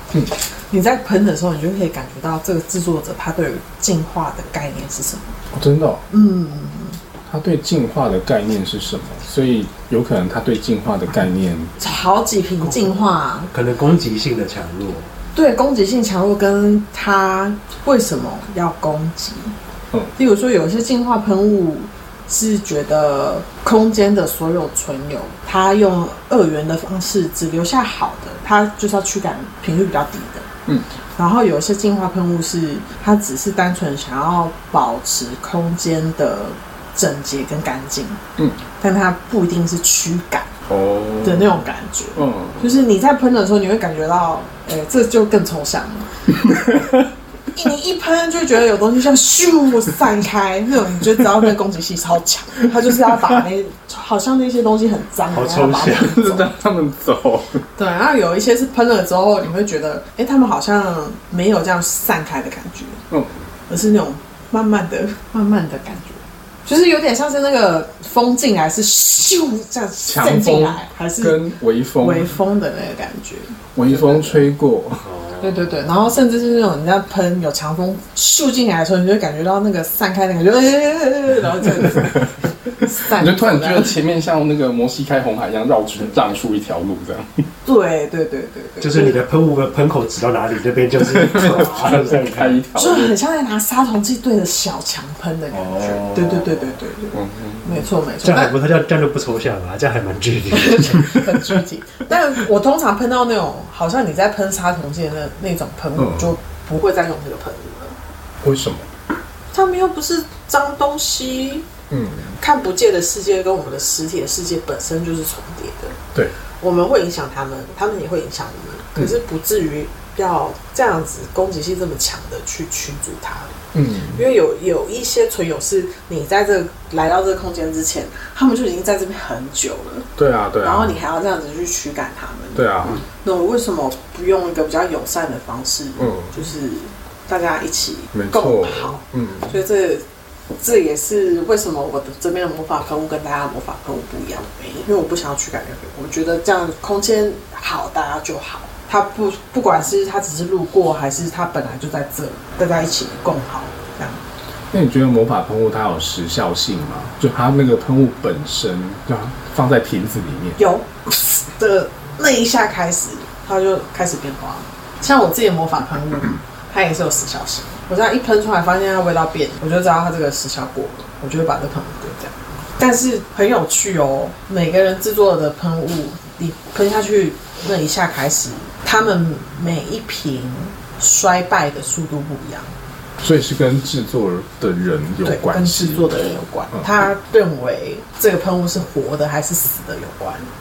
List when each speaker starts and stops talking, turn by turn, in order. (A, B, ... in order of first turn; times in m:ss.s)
0:00.6-0:05.4 A
0:05.5-0:06.0 B
0:06.1-0:07.0 A
0:07.3-0:11.7 B
0:11.8-0:13.5 A
0:13.5-0:15.1 C
0:15.3-0:19.5 A
0:20.2-0:30.5 A
0:31.2-0:38.2 A
0:38.8-0:40.5 A
0:40.7-0:41.6 B
0:41.2-0:46.3 A
0:42.2-0:42.7 B
0:47.5-0:56.4 A
0:55.3-0:56.3 C
0:55.9-0:57.6 B
0:57.8-1:03.0 A
1:03.7-1:14.4 A
1:10.0-1:12.3 B
1:13.7-1:15.1 B
1:15.0-1:15.8 C
1:15.4-1:23.9 A
1:23.1-1:27.5 B
1:27.6-1:29.2 A
1:28.8-1:32.6 C
1:31.0-1:33.2 B
1:32.7-1:38.5 A
1:35.6-1:36.5 C
1:37.1-1:37.8 B
1:38.2-1:41.3 C
1:40.5-1:48.0 A
1:46.0-1:46.3 B
1:48.4-1:48.8 B
1:49.5-1:51.7 A
1:51.9-1:52.4 B
1:52.4-1:56.0 A
1:56.6-2:03.6 A
2:03.7-2:04.2 B
2:04.1-2:10.1 A
2:10.2-2:11.0 B
2:10.6-2:20.0 A
2:12.5-2:13.0 B
2:16.0-2:16.3 B
2:18.1-2:19.5 B
2:20.6-2:34.2 A
2:34.7-2:40.6 B
2:40.6-3:02.7 A
3:03.2-3:06.8 B
3:05.2-3:10.5 A